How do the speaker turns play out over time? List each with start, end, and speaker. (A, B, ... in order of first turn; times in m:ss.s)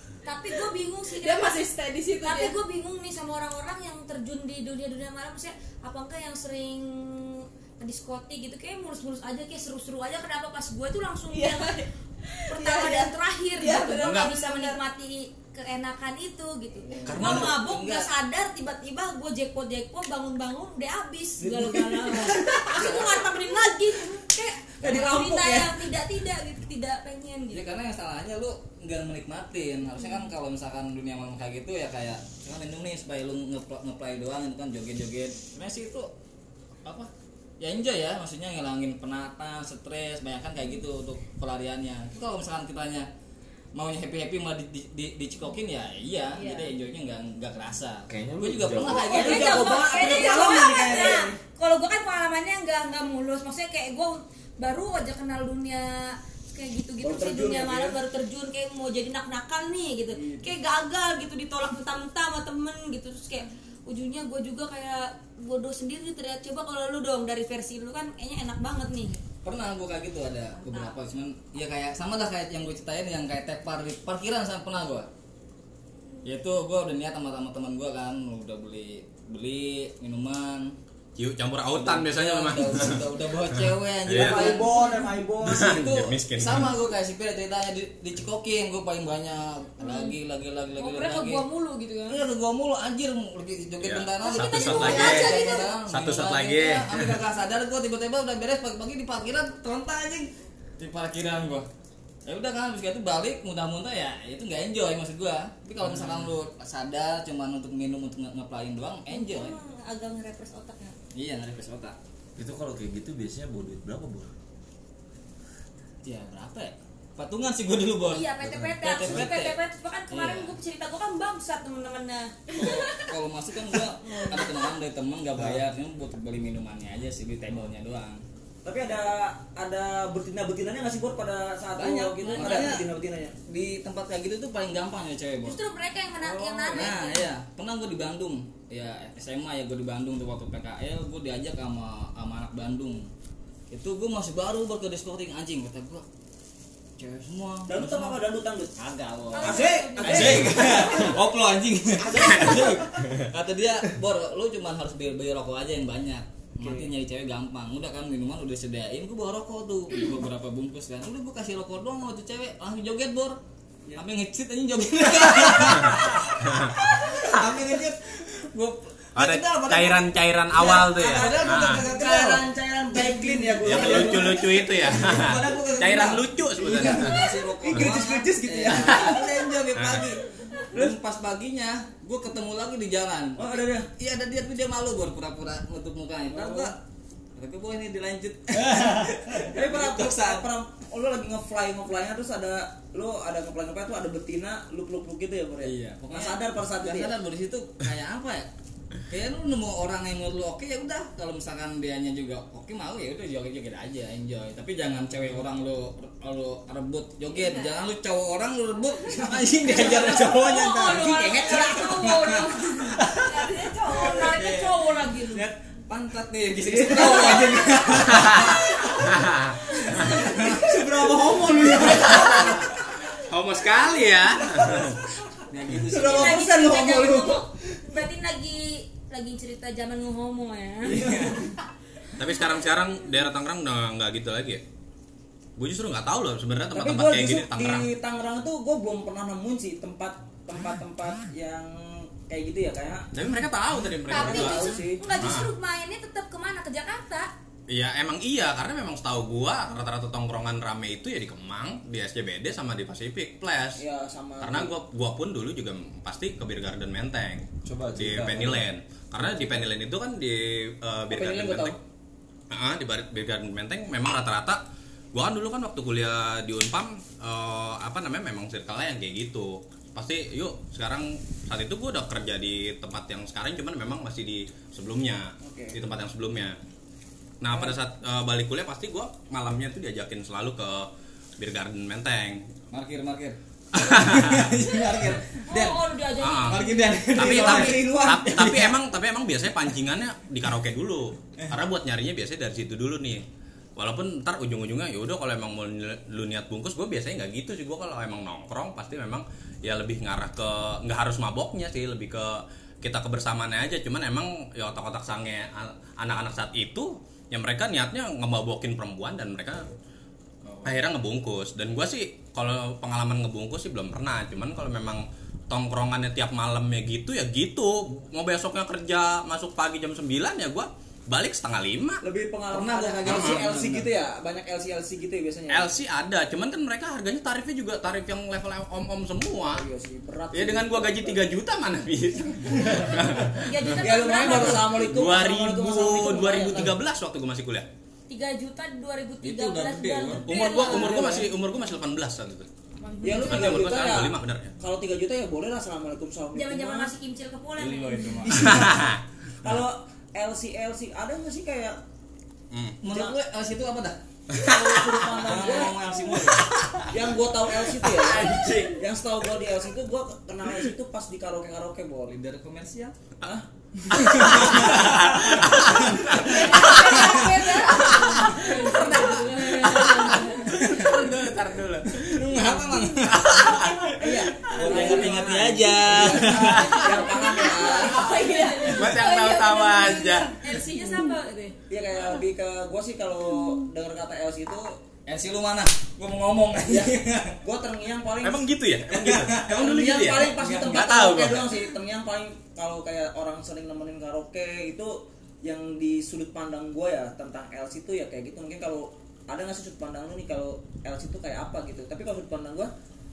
0:00.2-0:01.7 A
0:01.1-0:02.6 B
0:02.2-0:11.8 A
0:11.3-0:14.8 B
0:12.5-0:27.7 A
0:14.0-0:14.3 C
0:17.0-0:18.1 D
0:17.0-0:17.6 C
0:21.4-0:23.0 E
0:24.8-0:25.8 E
0:27.5-0:36.1 D
0:36.8-0:43.1 D
0:43.7-0:49.8 D
0:46.4-0:46.7 B
0:48.1-0:49.2 F
0:48.8-1:09.2 A
0:49.1-0:51.4 E
0:49.7-0:51.3 B
0:57.0-0:58.0 E
1:00.2-1:00.5 E
1:09.4-1:15.1 D
1:10.6-1:10.9 A
1:16.2-1:20.8 D
1:21.2-1:24.6 C
1:21.7-1:24.8 D
1:24.1-1:25.8 E
1:24.7-1:25.0 A
1:25.4-1:26.7 C
1:25.4-1:31.4 D
1:29.8-1:30.2 A
1:30.8-1:32.2 A
1:32.1-1:41.7 D
1:33.8-1:37.2 C
1:34.2-1:35.7 A
1:42.2-1:49.5 D
1:49.1-1:51.0 A
1:51.1-1:52.0 D
1:52.4-1:54.3 F
1:56.0-1:59.6 D
1:58.0-2:02.6 A
1:58.4-1:59.3 F
2:00.1-2:00.6 D
2:02.5-2:08.2 D
2:04.0-2:04.7 A
2:05.4-2:05.6 F
2:08.6-2:13.3 E
2:11.7-2:12.9 D
2:12.3-2:12.6 A
2:13.5-2:15.6 D
2:15.4-2:17.3 A
2:16.2-2:16.9 E
2:16.7-2:23.1 D
2:23.7-2:26.0 D
2:27.0-2:28.2 D
2:27.7-2:28.7 E
2:28.8-2:43.4 D
2:29.3-2:31.1 A
2:29.4-2:31.1 E
2:32.0-2:32.9 E
2:32.2-2:33.3 C
2:36.6-2:36.9 E
2:43.9-2:50.1 D
2:45.8-2:46.8 C
2:49.1-2:51.8 C
2:50.5-2:59.3 E
2:50.7-2:54.4 D
2:53.6-2:57.2 C
2:55.1-3:06.7 D
2:58.7-2:59.2 C
2:59.7-3:00.1 C
3:03.4-3:03.9 E
3:06.3-3:06.7 E
3:07.4-3:10.5 D
3:08.7-3:09.2 F
3:09.4-3:17.1 E
3:15.6-3:18.5 D
3:19.1-3:33.1 D
3:29.7-3:35.5 A
3:31.0-3:31.8 E
3:34.1-3:34.8 D
3:35.3-3:38.7 D
3:36.6-3:39.0 E
3:38.1-3:40.2 C
3:39.8-3:42.8 E
3:40.0-3:40.8 D
3:42.2-3:42.6 C
3:43.2-3:45.0 C
3:45.5-3:46.6 D
3:45.8-3:47.5 E
3:46.1-3:51.0 A
3:50.8-3:51.5 E
3:50.9-3:51.4 D
3:52.2-3:54.6 C
3:55.6-3:57.9 C
3:56.7-4:03.1 E
4:03.1-4:05.5 C
4:04.1-4:05.0 E
4:04.1-4:07.3 A
4:07.7-4:13.8 C
4:13.8-4:14.7 E
4:14.4-4:21.8 C
4:17.6-4:18.7 F
4:21.1-4:21.8 E
4:22.5-4:24.6 C
4:25.1-4:36.6 C
4:35.4-4:35.8 E
4:37.4-4:42.5 C
4:42.7-4:45.8 D
4:43.7-4:44.6 C
4:45.5-4:47.1 A
4:46.2-4:46.6 C
4:46.5-4:48.6 D
4:47.1-4:48.5 E
4:47.2-4:53.2 C
4:53.8-5:09.7 C
5:10.4-5:10.8 D
5:10.6-5:22.0 C
5:22.0-5:25.7 E
5:22.5-5:23.9 D
5:23.0-5:23.4 C
5:25.5-5:29.6 C
5:29.4-5:31.3 E
5:30.3-5:37.7 C
5:32.6-5:36.7 E
5:33.3-5:34.7 A
5:38.1-5:41.2 A
5:39.2-5:40.2 D
5:40.2-5:42.5 C
5:40.4-5:41.3 E
5:42.8-5:43.9 A
5:43.0-5:46.9 E
5:43.2-5:44.5 C
5:46.3-5:48.3 A
5:47.6-5:48.5 D
5:48.2-5:51.8 E
5:48.4-5:49.0 C
5:52.5-5:52.8 C
5:52.8-5:54.0 D
5:52.8-5:53.2 E
5:54.3-5:55.2 C
5:54.4-5:56.3 E
5:55.1-5:56.5 D
5:56.9-6:02.2 E
5:57.8-5:58.8 C
6:02.1-6:02.9 D
6:03.2-6:04.8 E
6:03.9-6:07.3 D
6:04.1-6:12.3 C
6:06.2-6:10.6 A
6:08.2-6:11.1 D
6:11.9-6:13.6 D
6:13.1-6:14.7 C
6:14.0-6:18.6 E
6:14.4-6:16.8 D
6:14.8-6:15.4 F
6:16.4-6:17.0 C
6:16.5-6:21.6 A
6:17.9-6:20.6 C
6:21.7-6:24.8 E
6:25.0-6:27.4 D
6:26.7-6:28.5 E
6:28.2-6:31.6 C
6:28.9-6:30.9 D
6:29.4-6:42.7 E